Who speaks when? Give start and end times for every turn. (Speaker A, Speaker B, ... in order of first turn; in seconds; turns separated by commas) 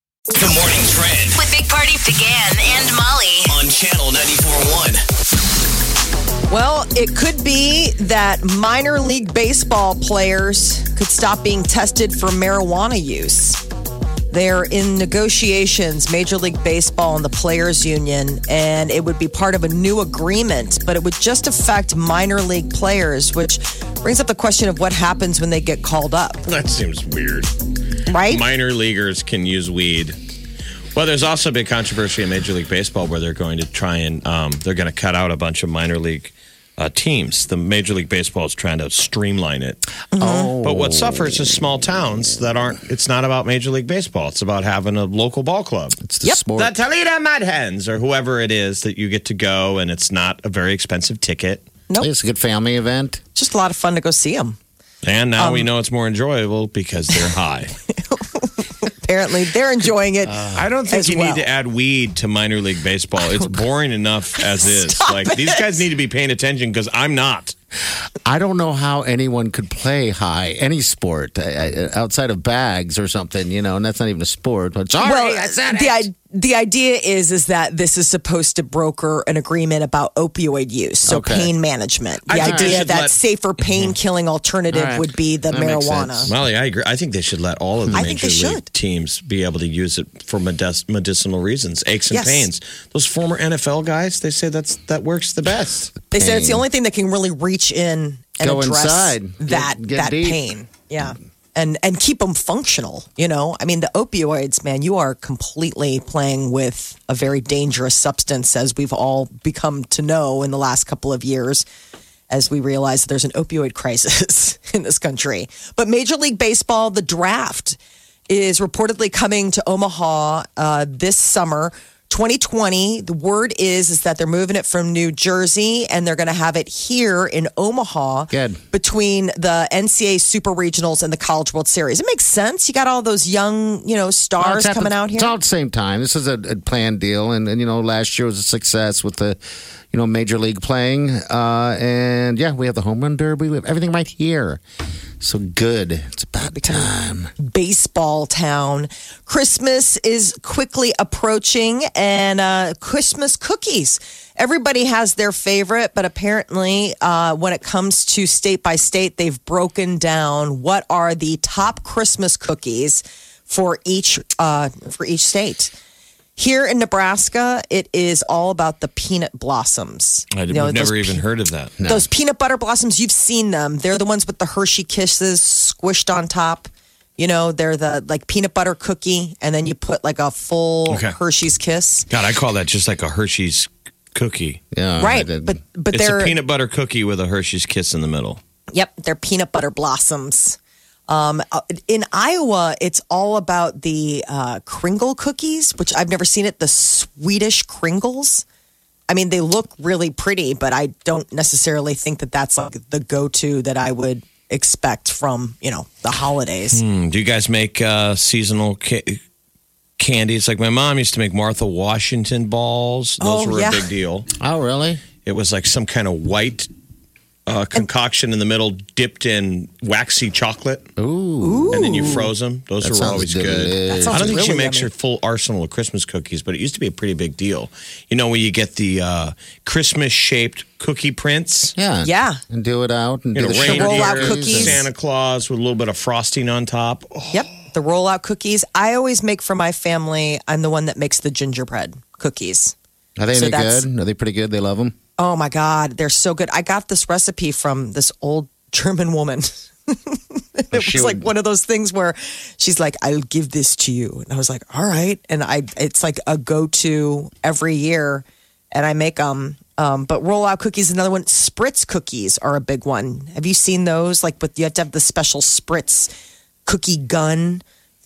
Speaker A: 0.3-1.4, Speaker B: 1.3-3.5, Speaker A: 3.4-5.0, Speaker C: 6.5-13.6, Speaker C: 14.3-26.4, Speaker D: 26.4-27.5, Speaker C: 28.1-28.4, Speaker D: 28.1-30.2, Speaker D: 30.9-39.8, Speaker C: 40.1-40.5, Speaker E: 40.2-41.5, Speaker D: 40.6-46.0, Speaker E: 46.0-46.8, Speaker D: 46.5-51.7, Speaker E: 52.0-53.2, Speaker C: 53.3-54.6, Speaker D: 55.0-57.7, Speaker C: 55.4-55.7, Speaker C: 57.9-61.5, Speaker E: 60.2-60.7, Speaker D: 60.5-67.5, Speaker C: 64.4-65.8, Speaker E: 68.2-76.1, Speaker C: 75.0-86.3, Speaker E: 81.0-81.5, Speaker D: 82.3-84.0, Speaker E: 82.3-82.8, Speaker E: 84.7-86.3, Speaker D: 86.3-95.9, Speaker C: 87.9-88.7, Speaker C: 92.1-92.5, Speaker E: 96.1-96.7, Speaker C: 96.1-111.7, Speaker E: 98.4-100.4, Speaker C: 112.3-135.3, Speaker E: 128.3-128.6, Speaker E: 134.4-139.4, Speaker E: 139.9-144.6, Speaker E: 145.2-147.3, Speaker C: 146.4-165.7, Speaker C: 166.3-171.2, Speaker D: 170.3-171.7, Speaker E: 171.8-172.1, Speaker C: 171.8-182.1, Speaker D: 180.9-181.1, Speaker D: 182.1-184.6, Speaker E: 184.7-185.6, Speaker C: 185.0-186.3, Speaker D: 185.9-188.4, Speaker C: 188.7-198.4, Speaker C: 199.1-206.8, Speaker D: 206.7-209.2, Speaker D: 210.0-214.3, Speaker C: 213.2-213.9, Speaker E: 214.4-215.0, Speaker D: 215.2-216.7, Speaker D: 217.5-220.9, Speaker E: 221.0-222.1, Speaker C: 221.4-222.3, Speaker D: 221.7-231.7, Speaker E: 222.8-224.4, Speaker C: 223.8-224.9, Speaker E: 231.8-234.8, Speaker C: 232.0-232.4, Speaker D: 233.3-237.4, Speaker C: 233.6-234.8, Speaker C: 237.3-242.7, Speaker E: 243.2-244.9, Speaker C: 243.3-243.9, Speaker C: 245.2-266.1, Speaker E: 250.7-251.3, Speaker C: 266.6-267.6